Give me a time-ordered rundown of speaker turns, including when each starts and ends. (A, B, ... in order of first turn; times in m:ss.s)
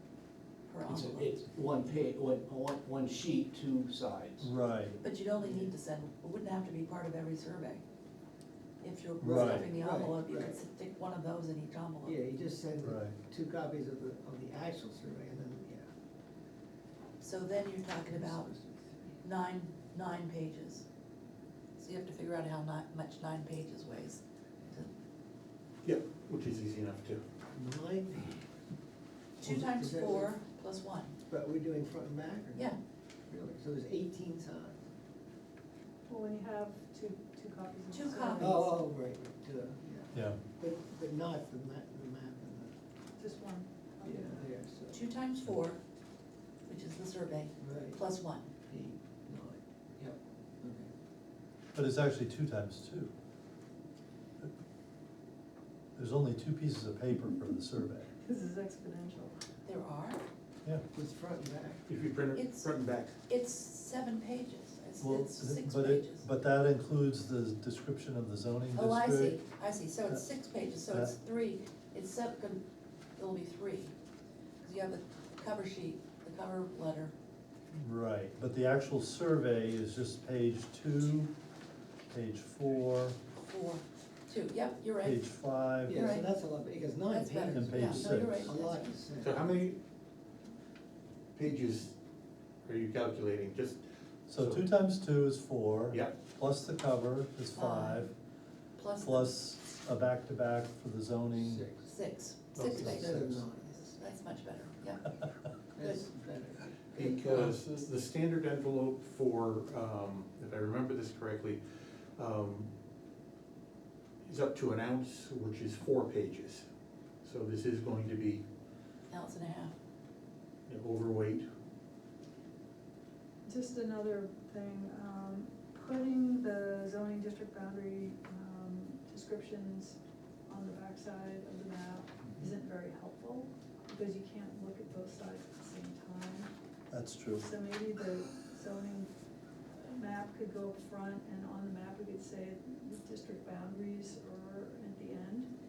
0:00.7-0:01.4 A
0:00.9-0:04.5 B
0:04.4-0:05.0 C
0:05.0-0:07.8 A
0:05.4-0:05.7 D
0:08.8-0:12.2 A
0:09.2-0:09.7 C
0:09.3-0:10.6 D
0:12.0-0:15.8 D
0:12.8-0:13.2 C
0:17.2-0:18.5 A
0:18.1-0:19.2 D
0:19.2-0:20.8 A
0:21.8-0:24.9 A
0:25.8-0:27.2 E
0:27.5-0:28.4 D
0:29.4-0:31.1 A
0:29.4-0:30.3 D
0:31.3-0:32.7 D
0:33.3-0:34.8 D
0:36.1-0:38.8 F
0:37.9-0:38.6 A
0:38.4-0:42.7 D
0:40.1-0:40.4 C
0:43.2-0:43.7 F
0:44.0-0:45.8 A
0:44.0-0:45.0 D
0:46.7-0:48.5 A
0:47.6-0:48.0 D
0:48.7-0:50.9 D
0:51.7-0:53.1 C
0:56.0-0:58.1 C
0:58.2-0:59.3 F
0:59.6-1:00.2 A
1:00.9-1:01.8 D
1:01.9-1:03.2 E
1:02.3-1:02.7 A
1:03.3-1:06.2 A
1:05.0-1:09.4 C
1:08.7-1:12.6 A
1:10.9-1:11.1 C
1:13.2-1:13.9 A
1:14.6-1:17.1 A
1:17.7-1:21.3 C
1:22.1-1:23.2 C
1:23.4-1:25.2 A
1:25.0-1:26.2 C
1:25.8-1:29.5 D
1:25.9-1:26.3 A
1:27.1-1:29.0 A
1:27.5-1:28.6 C
1:29.2-1:29.8 E
1:31.3-1:31.9 E
1:32.6-1:33.8 E
1:34.3-1:38.1 C
1:34.3-1:34.6 E
1:37.5-1:38.1 A
1:38.8-1:39.3 A
1:39.0-1:41.7 C
1:41.3-1:41.8 D
1:41.8-1:43.2 A
1:42.5-1:43.4 E
1:42.6-1:44.0 D
1:43.9-1:45.2 A
1:45.8-1:47.4 D
1:45.8-1:46.0 A
1:46.9-1:51.6 E
1:52.2-1:52.7 E
1:54.2-1:56.6 E
1:57.2-1:58.4 E
1:59.1-1:59.7 A
2:00.7-2:01.5 E
2:03.4-2:10.0 F
2:10.5-2:16.5 F
2:16.9-2:17.5 C
2:17.4-2:19.1 F
2:19.7-2:25.5 F